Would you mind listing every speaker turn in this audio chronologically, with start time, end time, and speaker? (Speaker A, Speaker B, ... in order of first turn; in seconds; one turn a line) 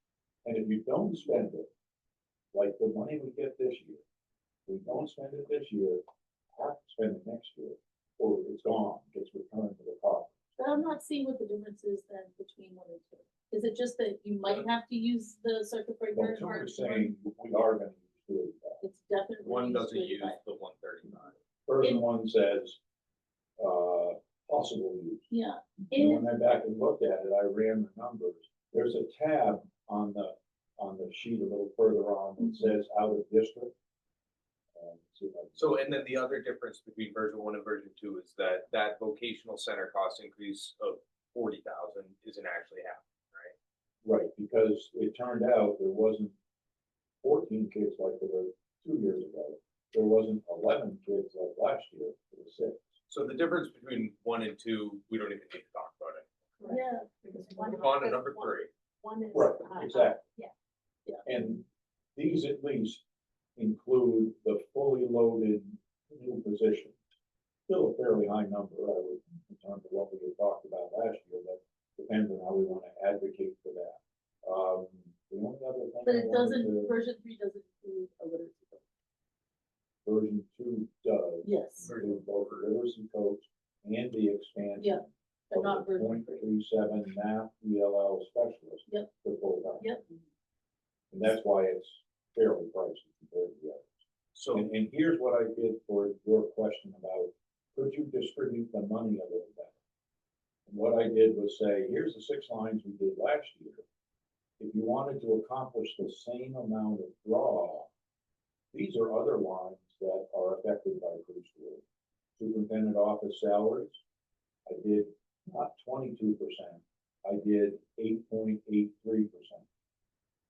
Speaker A: 0.5-1.7
Speaker A: 2.5-4.0
Speaker A: 4.7-6.0
Speaker A: 6.5-10.3
Speaker B: 10.6-17.1
Speaker A: 16.1-18.8
Speaker B: 18.8-20.4
Speaker C: 19.4-21.4
Speaker A: 21.7-22.8
Speaker A: 23.6-25.2
Speaker B: 25.3-26.2
Speaker A: 25.9-33.7
Speaker B: 32.4-32.7
Speaker A: 34.8-36.1
Speaker C: 35.6-43.5
Speaker A: 44.0-46.4
Speaker A: 47.2-52.8
Speaker C: 53.1-56.3
Speaker D: 56.6-60.5
Speaker B: 56.7-57.3
Speaker C: 57.6-58.7
Speaker A: 59.3-60.2
Speaker A: 61.3-61.6
Speaker A: 62.2-63.0
Speaker A: 63.6-67.0
Speaker A: 67.7-76.9
Speaker B: 76.0-78.8
Speaker A: 80.0-90.0
Speaker B: 81.4-81.9
Speaker C: 81.8-82.7
Speaker B: 84.8-86.5
Speaker A: 91.1-93.9
Speaker C: 94.3-94.7
Speaker A: 94.5-99.8
Speaker A: 100.7-103.8
Speaker A: 104.6-107.9
Speaker A: 108.7-111.8
Speaker A: 112.4-114.0
Speaker A: 114.7-119.7